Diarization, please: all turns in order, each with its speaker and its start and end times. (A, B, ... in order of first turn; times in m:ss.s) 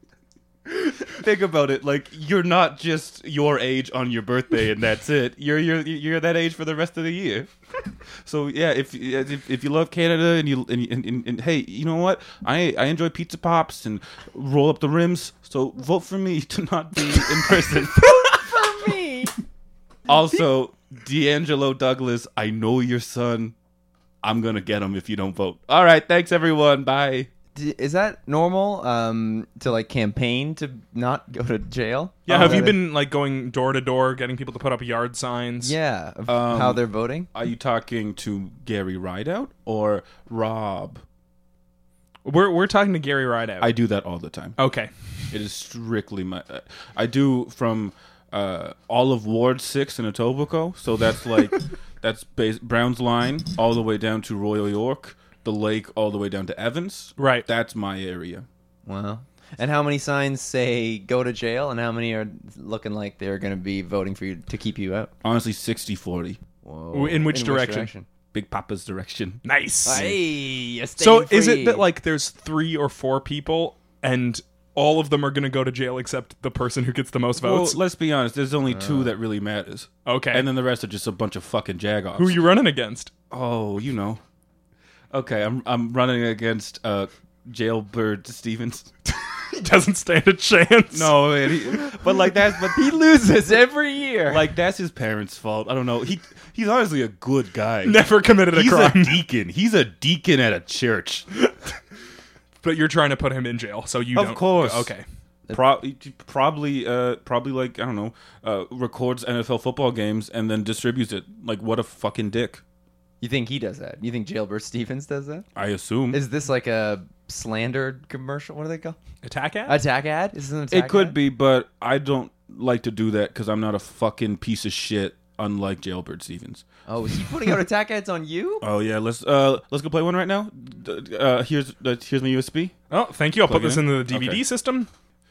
0:00.7-0:07.5 A
0:08.2-0:18.5 A
0:18.0-0:19.3 B
0:20.1-0:23.5 A
0:24.2-0:27.3 A
0:27.5-0:32.8 B
0:32.3-0:35.7 C
0:32.3-0:32.7 A
0:35.6-0:37.3 B
0:36.3-0:36.8 A
0:37.3-0:41.0 A
0:42.2-0:43.7 C
0:43.6-0:44.6 A
0:44.6-0:44.9 C
0:45.3-0:58.4 A
0:57.2-0:57.4 C
0:58.8-1:05.1 B
1:05.2-1:06.4 A
1:06.6-1:08.0 B
1:06.9-1:07.9 C
1:08.3-1:10.2 A
1:09.4-1:10.0 C
1:09.8-1:11.8 B
1:11.0-1:17.8 C
1:17.4-1:22.4 A
1:18.7-1:19.1 B
1:20.0-1:20.5 C
1:22.1-1:23.1 C
1:23.3-1:24.2 A
1:25.1-1:28.9 A
1:29.1-1:31.2 C
1:30.9-1:33.0 A
1:32.5-1:34.5 B
1:34.3-1:41.2 A
1:37.8-1:39.2 C
1:42.6-1:45.0 C
1:44.1-1:44.9 A
1:45.5-1:52.6 A
1:53.2-1:55.4 B
1:55.6-1:56.2 A
1:56.1-1:59.0 B
1:59.2-1:59.8 C
1:59.7-2:01.2 B
2:00.7-2:06.6 A
2:06.9-2:08.6 B
2:08.6-2:12.8 A
2:12.9-2:14.9 C
2:13.4-2:14.4 A